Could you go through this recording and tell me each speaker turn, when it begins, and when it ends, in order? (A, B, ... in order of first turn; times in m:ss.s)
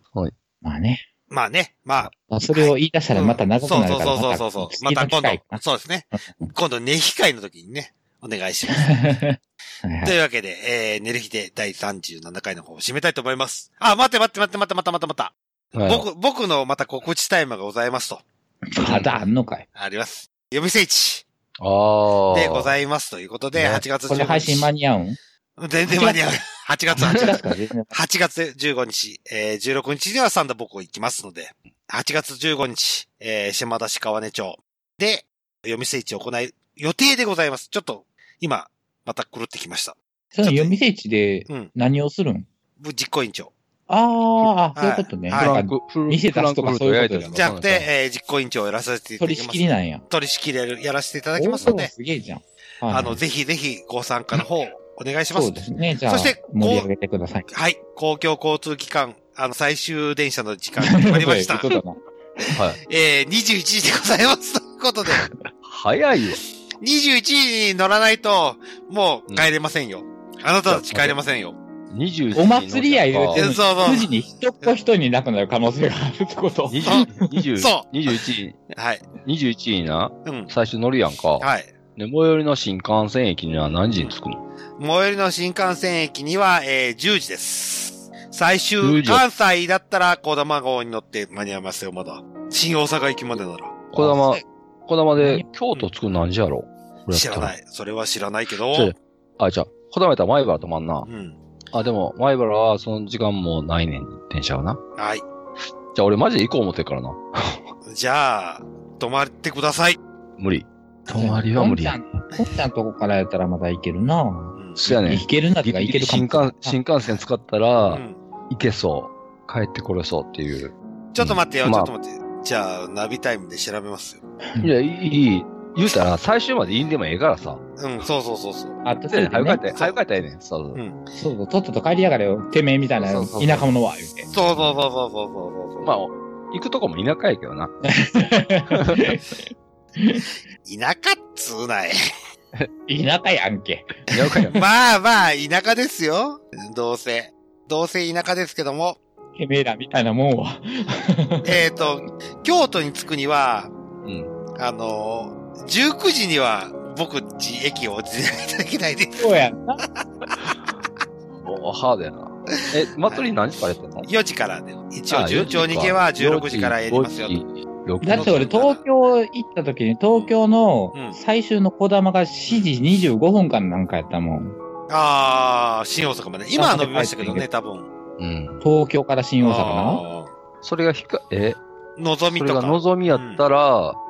0:00.6-0:01.0 A
0:01.3-0:09.1 B
0:02.3-0:05.6 A
0:06.1-0:06.5 A
0:08.7-0:10.2 A
0:10.0-0:18.2 B
0:15.7-0:16.1 C
0:18.7-0:19.6 A
0:18.8-0:19.1 B
0:19.7-0:21.2 B
0:21.6-0:22.8 C
0:22.3-0:24.7 B
0:23.5-0:23.8 C
0:24.0-0:25.2 A
0:25.6-0:40.7 B
0:25.8-0:26.2 A
0:27.1-0:28.0 A
0:40.3-0:42.5 A
0:42.8-0:43.5 B
0:43.9-0:47.3 A
0:44.7-0:45.5 B
0:45.3-0:47.9 C
0:47.2-0:51.9 B
0:49.2-0:50.0 A
0:51.4-0:53.2 A
0:52.9-0:56.9 B
0:55.3-0:57.5 A
0:57.5-1:01.7 B
1:00.8-1:02.0 A
1:02.5-1:05.3 B
1:05.6-1:06.4 C
1:06.8-1:11.6 B
1:10.6-1:11.2 C
1:11.9-1:13.6 C
1:12.3-1:17.2 A
1:13.3-1:14.7 B
1:16.7-1:18.6 C
1:16.8-1:17.9 B
1:18.7-1:19.0 B
1:19.2-1:24.4 C
1:20.2-1:20.5 B
1:21.4-1:21.7 B
1:24.8-1:33.8 B
1:28.8-1:29.2 C
1:33.9-1:37.6 C
1:34.0-1:34.4 A
1:35.2-1:35.4 A
1:37.1-1:38.9 B
1:38.7-1:41.1 C
1:41.1-1:41.4 B
1:41.7-1:44.8 C
1:45.0-1:45.2 B
1:45.9-1:47.6 C
1:47.9-1:50.0 B
1:50.4-1:52.0 C
1:51.1-1:56.8 A
1:54.5-1:54.8 B
1:54.8-2:01.9 C
1:57.8-1:58.2 B
2:01.1-2:04.2 B
2:04.6-2:07.6 C
2:07.8-2:08.8 B
2:08.8-2:09.7 A
2:09.1-2:10.8 C
2:10.7-2:11.0 B
2:11.2-2:14.3 A
2:13.0-2:13.7 C
2:14.3-2:15.9 B
2:15.8-2:17.7 C
2:17.8-2:19.2 A
2:18.7-2:19.0 C
2:20.0-2:20.3 A
2:20.6-2:21.9 B
2:22.9-2:24.6 A
2:24.1-2:24.6 C
2:24.5-2:29.0 B
2:29.4-2:31.6 A
2:31.4-2:33.7 B
2:34.0-2:34.3 C
2:34.6-2:39.3 B
2:39.2-2:39.8 A
2:41.4-2:44.1 C
2:44.0-2:47.4 B
2:45.1-2:48.5 C
2:48.0-2:54.5 A
2:48.0-2:48.8 B
2:50.9-2:51.2 B
2:54.9-2:57.9 B
2:56.6-2:57.4 A
2:58.2-2:58.6 C
2:58.6-3:00.0 A
2:59.4-3:00.3 B
3:00.6-3:01.6 C
3:02.0-3:03.4 B
3:02.3-3:04.0 C